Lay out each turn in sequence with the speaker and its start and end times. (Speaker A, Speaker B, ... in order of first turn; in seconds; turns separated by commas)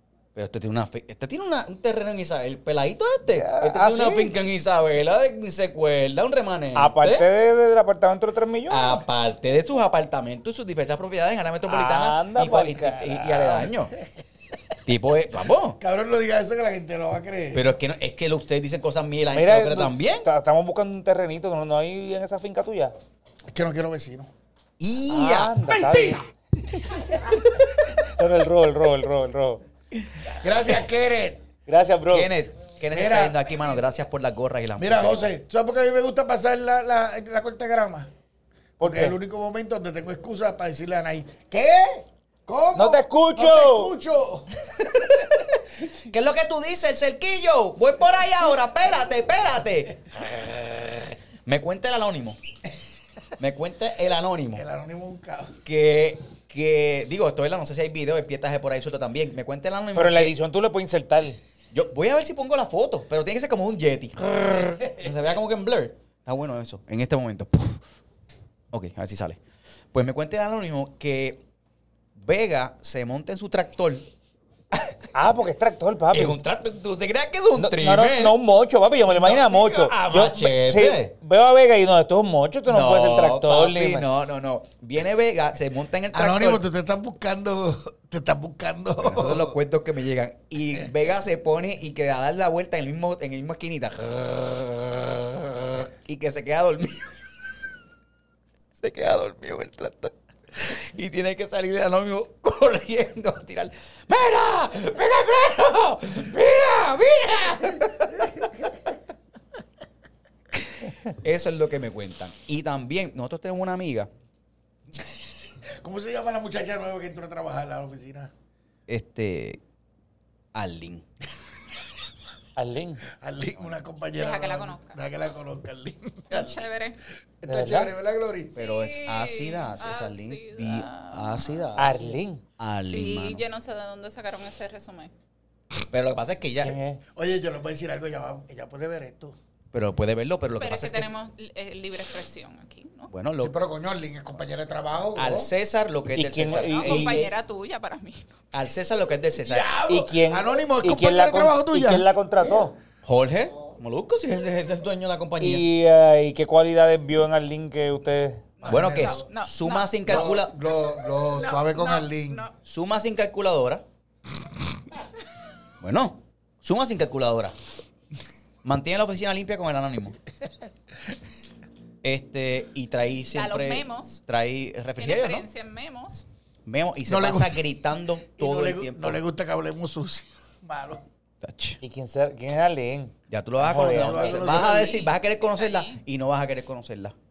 Speaker A: 0.3-7.3, Speaker B: 3.3-4.3, Speaker B: 6.7-9.0, Speaker A: 8.7-13.9, Speaker B: 11.7-13.6, Speaker A: 14.8-15.8, Speaker C: 15.8-17.7, Speaker A: 17.5-20.3, Speaker B: 19.3-22.9, Speaker C: 23.5-24.3, Speaker A: 24.8-25.5, Speaker B: 25.1-29.6, Speaker A: 29.9-30.3, Speaker C: 30.2-31.4, Speaker B: 31.7-32.3, Speaker A: 32.1-35.3, Speaker C: 32.9-33.4, Speaker C: 34.8-38.1, Speaker B: 38.8-39.1, Speaker C: 38.8-44.9, Speaker B: 42.7-43.9, Speaker A: 46.0-52.4, Speaker A: 53.4-54.6, Speaker C: 54.5-55.6, Speaker A: 55.6-60.3, Speaker B: 59.9-61.4, Speaker A: 61.7-67.8, Speaker C: 64.8-65.1, Speaker A: 68.7-69.4, Speaker A: 69.9-71.4, Speaker A: 72.1-74.1, Speaker B: 75.1-76.4, Speaker A: 76.1-78.3, Speaker B: 77.5-84.0, Speaker A: 79.1-81.1, Speaker A: 82.7-86.6, Speaker C: 86.1-89.6, Speaker A: 89.0-97.2, Speaker A: 98.8-108.5, Speaker A: 111.0-114.1, Speaker C: 114.9-118.3, Speaker A: 118.9-119.6, Speaker A: 120.5-121.0, Speaker B: 122.5-123.0, Speaker C: 123.1-126.6, Speaker D: 124.2-125.0, Speaker D: 126.3-127.0, Speaker C: 127.4-128.6, Speaker B: 127.5-127.9, Speaker A: 128.6-133.4, Speaker D: 128.6-131.7, Speaker B: 131.8-132.4, Speaker D: 132.8-135.1, Speaker A: 135.9-136.8, Speaker B: 136.6-137.0, Speaker C: 137.1-139.3, Speaker A: 139.7-141.1, Speaker D: 140.6-143.1, Speaker A: 143.1-143.6, Speaker C: 143.4-145.5, Speaker A: 145.2-147.3, Speaker B: 146.1-147.2, Speaker D: 146.7-148.3, Speaker A: 148.5-149.7, Speaker C: 149.4-152.1, Speaker B: 149.9-152.8, Speaker A: 153.0-155.7, Speaker B: 155.4-158.4, Speaker C: 158.6-159.3, Speaker A: 158.7-160.5, Speaker D: 158.9-160.4, Speaker C: 160.0-162.4, Speaker D: 161.3-162.5, Speaker A: 162.6-163.8, Speaker A: 165.8-167.6, Speaker A: 168.6-170.2, Speaker A: 172.0-175.5, Speaker D: 173.3-174.2, Speaker D: 175.0-176.2, Speaker A: 176.6-179.2, Speaker C: 177.0-177.6, Speaker C: 178.3-181.0, Speaker A: 181.4-181.8, Speaker B: 181.8-184.4, Speaker A: 183.3-187.1, Speaker C: 183.6-185.1, Speaker D: 184.4-186.0